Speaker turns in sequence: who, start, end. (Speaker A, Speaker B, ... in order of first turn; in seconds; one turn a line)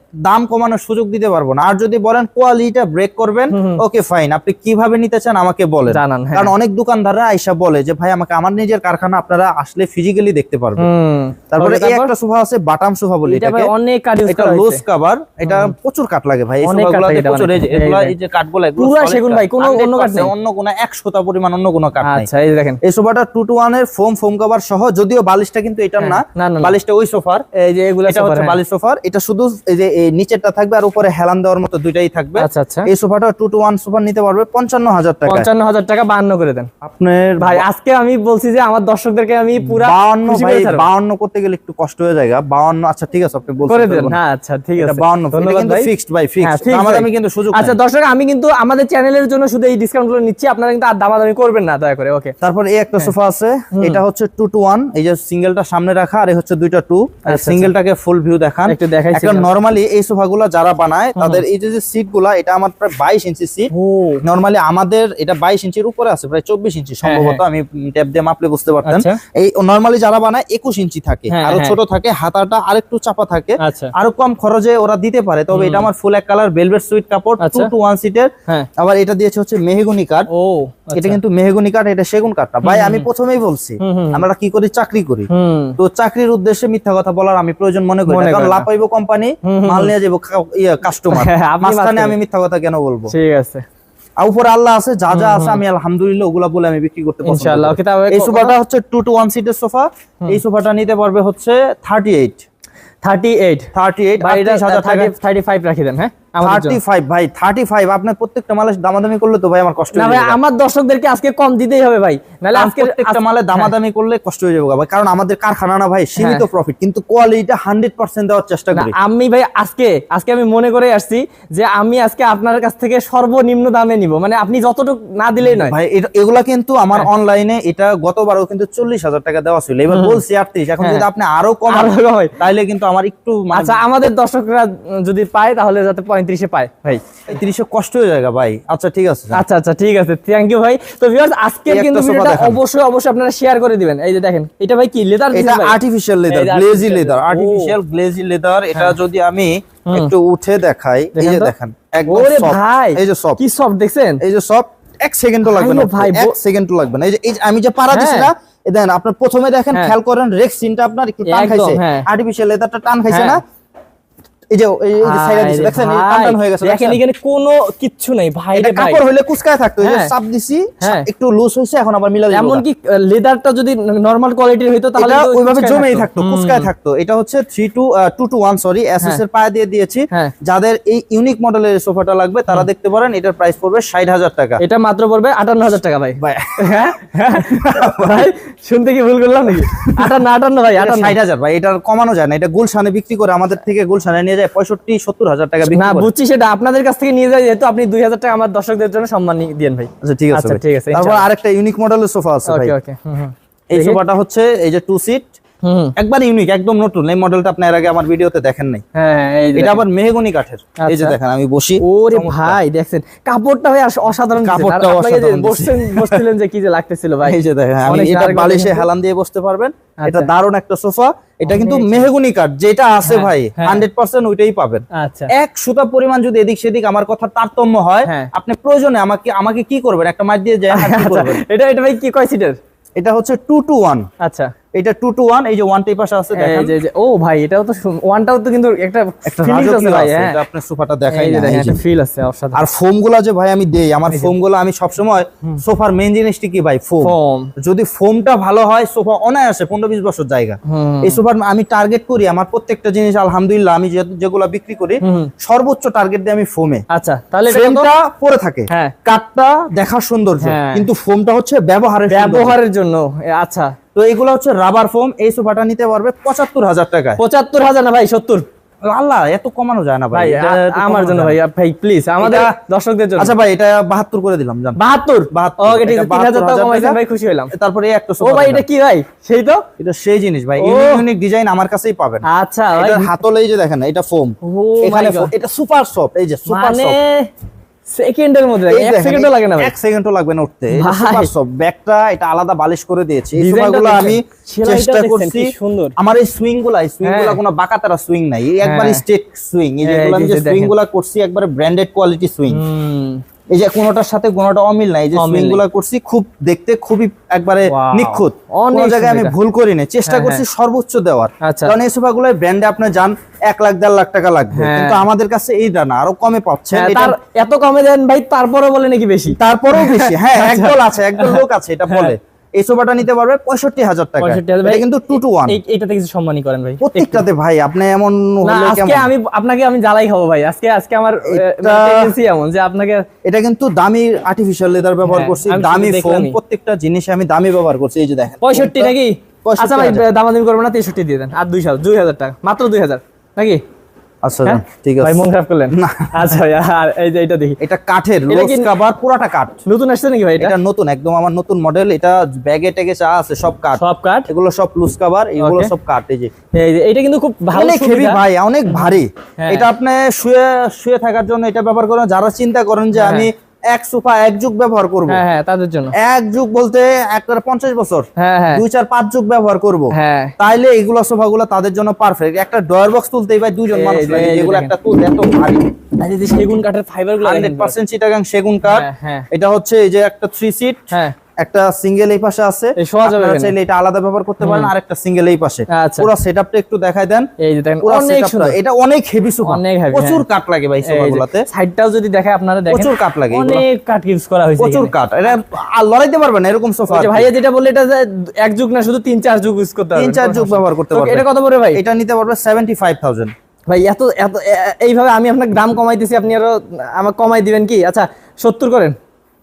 Speaker A: 0.2-10.9
Speaker B: 3.5-3.8
Speaker B: 5.9-6.5
Speaker B: 10.8-12.1
Speaker A: 11.5-13.7
Speaker B: 13.3-14.8
Speaker A: 14.3-22.3
Speaker B: 15.4-15.7
Speaker B: 16.6-18.1
Speaker B: 18.8-20.3
Speaker B: 22.0-22.8
Speaker A: 22.8-27.4
Speaker B: 26.0-26.7
Speaker B: 27.6-28.6
Speaker A: 28.1-35.5
Speaker B: 32.4-32.9
Speaker B: 35.2-36.7
Speaker A: 36.8-37.6
Speaker B: 37.4-40.9
Speaker A: 39.6-44.1
Speaker B: 43.7-45.9
Speaker A: 44.8-47.8
Speaker B: 46.4-52.3
Speaker A: 52.4-63.7
Speaker B: 53.7-54.0
Speaker B: 57.2-57.7
Speaker B: 58.7-59.5
Speaker B: 61.1-61.4
Speaker B: 63.7-64.2
Speaker A: 64.2-80.3
Speaker B: 67.0-67.4
Speaker B: 68.8-69.2
Speaker B: 71.3-71.8
Speaker B: 73.6-73.9
Speaker B: 75.5-75.9
Speaker B: 77.4-77.7
Speaker B: 80.3-81.2
Speaker A: 80.9-93.1
Speaker B: 82.6-83.1
Speaker B: 83.8-84.2
Speaker B: 85.3-85.8
Speaker B: 88.1-88.7
Speaker B: 89.4-89.9
Speaker B: 91.1-92.2
Speaker B: 93.1-93.6
Speaker A: 94.2-102.4
Speaker B: 95.1-95.6
Speaker B: 97.2-98.5
Speaker B: 103.0-106.8
Speaker A: 103.7-105.1
Speaker A: 106.4-110.4
Speaker B: 109.9-113.7
Speaker A: 112.5-118.9
Speaker B: 116.2-116.5
Speaker B: 118.7-125.8
Speaker A: 125.4-133.8
Speaker B: 129.9-130.2
Speaker B: 130.8-131.0
Speaker B: 131.7-132.3
Speaker B: 133.5-137.0
Speaker A: 137.3-139.4
Speaker B: 139.3-145.8
Speaker A: 141.7-142.6
Speaker A: 145.3-153.4
Speaker B: 146.3-147.7
Speaker B: 151.2-151.5
Speaker B: 152.1-154.2
Speaker A: 154.2-163.4
Speaker B: 155.4-156.3
Speaker B: 157.9-158.3
Speaker B: 161.2-162.1
Speaker B: 163.1-163.4
Speaker A: 164.5-167.0
Speaker B: 165.0-169.0
Speaker A: 168.5-172.6
Speaker B: 169.8-170.1
Speaker B: 170.8-171.1
Speaker B: 172.3-176.7
Speaker A: 175.0-184.6
Speaker B: 184.6-191.1
Speaker A: 186.2-188.3
Speaker A: 189.7-190.2
Speaker A: 190.8-196.1
Speaker B: 195.7-201.2
Speaker A: 200.0-202.7
Speaker B: 202.5-204.0
Speaker A: 203.7-205.3
Speaker B: 205.6-205.9
Speaker A: 206.0-208.8
Speaker B: 208.9-209.8
Speaker A: 209.6-212.6
Speaker B: 210.8-211.2
Speaker B: 211.8-218.8
Speaker A: 214.4-216.2
Speaker A: 217.2-231.4
Speaker B: 220.0-220.3
Speaker B: 221.5-222.1
Speaker B: 223.0-223.8
Speaker B: 224.9-225.3
Speaker B: 228.0-228.3
Speaker B: 230.7-232.6
Speaker A: 233.0-234.1
Speaker B: 234.2-234.5
Speaker A: 234.8-236.7
Speaker B: 236.3-240.4
Speaker A: 239.2-241.8
Speaker B: 241.1-242.6
Speaker A: 242.5-256.8
Speaker B: 247.0-247.5
Speaker B: 250.7-251.2
Speaker B: 255.0-255.3
Speaker B: 256.9-257.9
Speaker A: 257.5-262.6
Speaker B: 258.7-258.9
Speaker B: 260.4-260.8
Speaker B: 262.1-263.7
Speaker A: 263.9-267.2
Speaker B: 267.2-268.4
Speaker A: 268.9-271.4
Speaker B: 270.1-273.3
Speaker A: 272.2-272.5
Speaker A: 273.2-274.8
Speaker B: 274.8-277.5
Speaker A: 275.3-277.0
Speaker A: 277.5-278.6
Speaker B: 278.2-279.6
Speaker A: 279.8-282.2
Speaker B: 280.6-281.0
Speaker B: 282.3-283.1
Speaker A: 282.8-287.0
Speaker B: 284.4-285.3
Speaker B: 286.5-287.3
Speaker B: 287.9-289.7
Speaker A: 288.7-302.6
Speaker B: 290.8-291.3
Speaker B: 293.3-295.9
Speaker B: 297.0-297.4
Speaker B: 298.6-299.0
Speaker B: 299.8-300.7
Speaker B: 302.5-303.2
Speaker A: 303.5-317.1
Speaker B: 305.1-305.6
Speaker B: 307.7-309.3
Speaker B: 310.1-310.4
Speaker B: 311.4-311.7
Speaker B: 314.5-315.0
Speaker B: 316.7-322.1
Speaker A: 319.4-325.6
Speaker B: 324.2-324.9
Speaker B: 325.4-327.2
Speaker A: 326.8-329.1
Speaker B: 328.4-333.0
Speaker A: 331.2-332.1
Speaker A: 333.2-340.1
Speaker B: 335.1-336.4
Speaker B: 338.4-343.6
Speaker A: 344.2-346.4
Speaker B: 344.4-347.6
Speaker A: 347.6-349.6
Speaker B: 348.3-348.7
Speaker B: 349.6-350.5
Speaker A: 350.4-356.3
Speaker B: 353.8-354.3
Speaker B: 355.4-355.7
Speaker B: 356.6-358.2
Speaker A: 357.5-365.2
Speaker B: 358.7-359.7
Speaker B: 362.9-363.3
Speaker B: 365.1-365.9
Speaker A: 366.0-375.7
Speaker B: 368.2-368.6
Speaker B: 369.9-370.3
Speaker B: 373.7-374.7
Speaker B: 376.0-377.8
Speaker A: 377.2-380.8
Speaker B: 378.7-379.3
Speaker A: 381.4-387.3
Speaker B: 382.8-383.5
Speaker B: 384.4-384.7
Speaker B: 385.7-386.1
Speaker B: 387.4-388.6
Speaker A: 387.8-391.4
Speaker B: 389.4-390.2
Speaker B: 390.9-394.9
Speaker A: 392.7-393.6
Speaker A: 394.6-397.3
Speaker B: 396.9-401.8
Speaker A: 399.9-403.3
Speaker B: 403.7-408.9